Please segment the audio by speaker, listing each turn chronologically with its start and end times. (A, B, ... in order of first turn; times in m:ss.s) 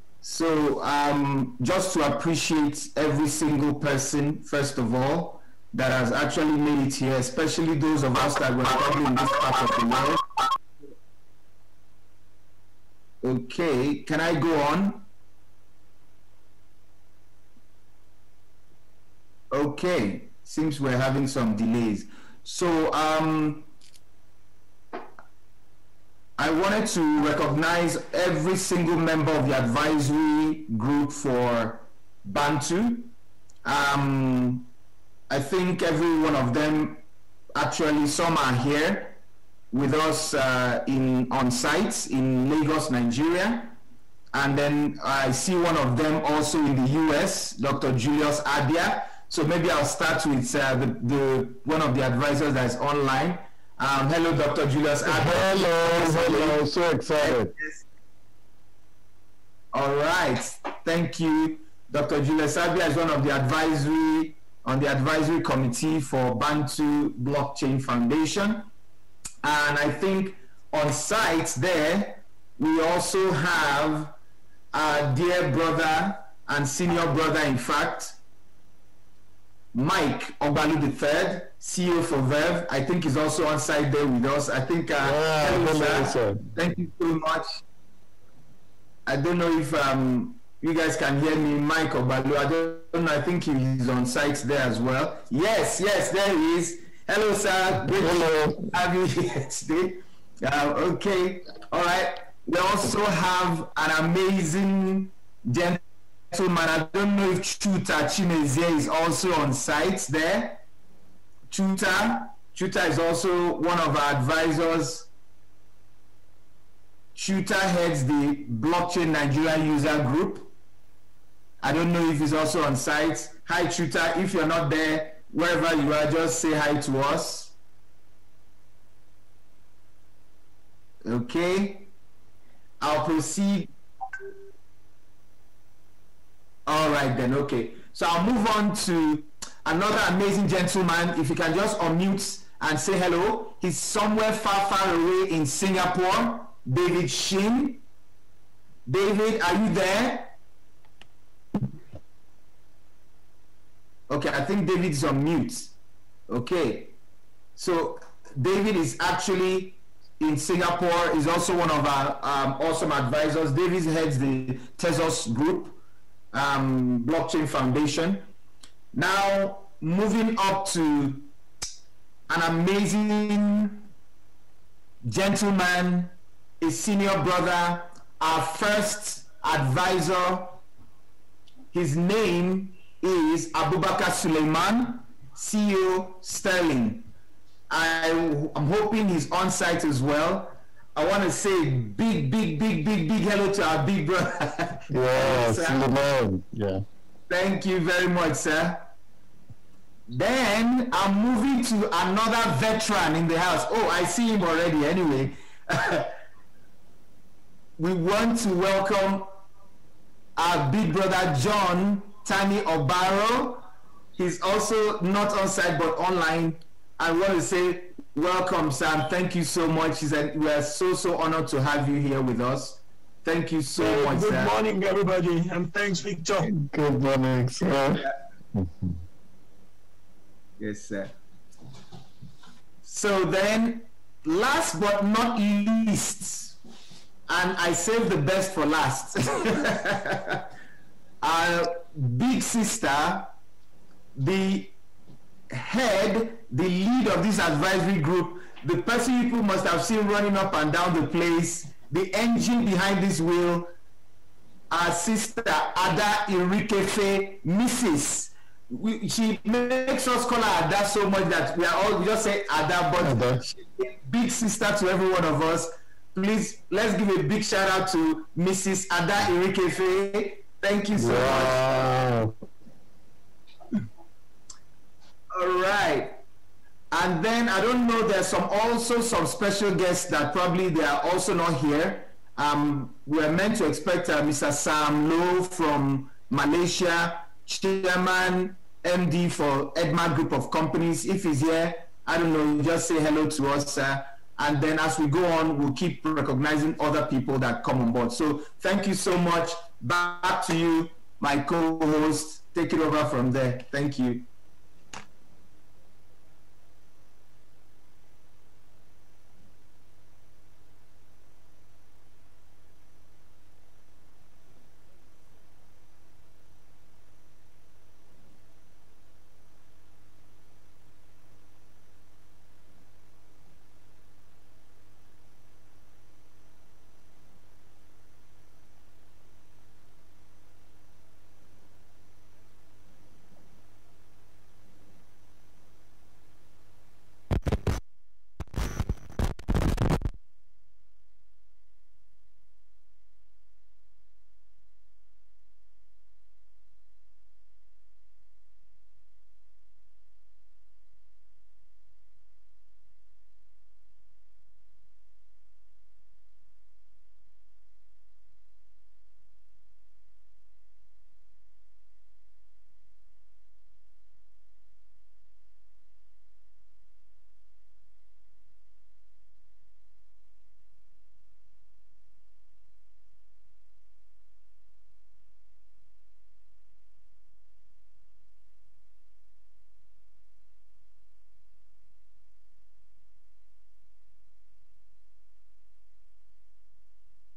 0:00.2-0:10.2 A
0:13.2-0:15.1 A
0:19.5-0:23.7 A
0:26.4-0:33.1 A
0:33.6-0:34.7 A
0:35.3-0:37.0 A
0:37.6-0:39.2 A
0:39.7-0:43.8 A
0:44.3-0:56.6 A
0:55.1-0:57.5 B
0:57.2-0:57.8 A
0:59.7-1:08.7 A
1:09.4-1:14.2 A
1:14.7-1:18.2 A
1:19.7-1:27.6 A
1:25.0-1:26.4 B
1:29.1-1:50.6 A
1:38.0-1:38.6 B
1:51.5-1:55.1 A
1:57.2-2:00.5 A
2:01.6-2:07.6 A
2:11.0-2:11.9 A
2:12.8-2:13.7 A
2:16.7-2:27.8 A
2:28.9-2:30.4 A
2:34.1-2:35.8 A
2:36.3-2:37.0 A
2:37.6-2:45.8 A
2:46.3-2:48.3 A
2:48.9-2:51.3 A
2:52.3-2:53.9 A
2:55.0-3:00.6 A
3:01.7-3:07.1 A
3:07.7-3:15.8 A
3:14.9-3:16.8 B
3:17.3-3:18.9 A
3:20.1-3:26.2 A
3:27.8-3:29.4 A
3:30.4-3:44.6 A
3:43.8-3:46.5 C
3:46.5-3:48.0 B
3:50.6-3:51.2 A
3:52.8-3:56.6 A
3:57.3-4:00.5 A
4:01.2-4:03.3 A
4:04.2-4:04.7 A
4:05.5-4:13.7 A
4:14.7-4:31.9 A
4:23.0-4:23.4 B
4:31.0-4:32.3 B
4:35.3-4:36.2 A
4:36.9-5:04.3 A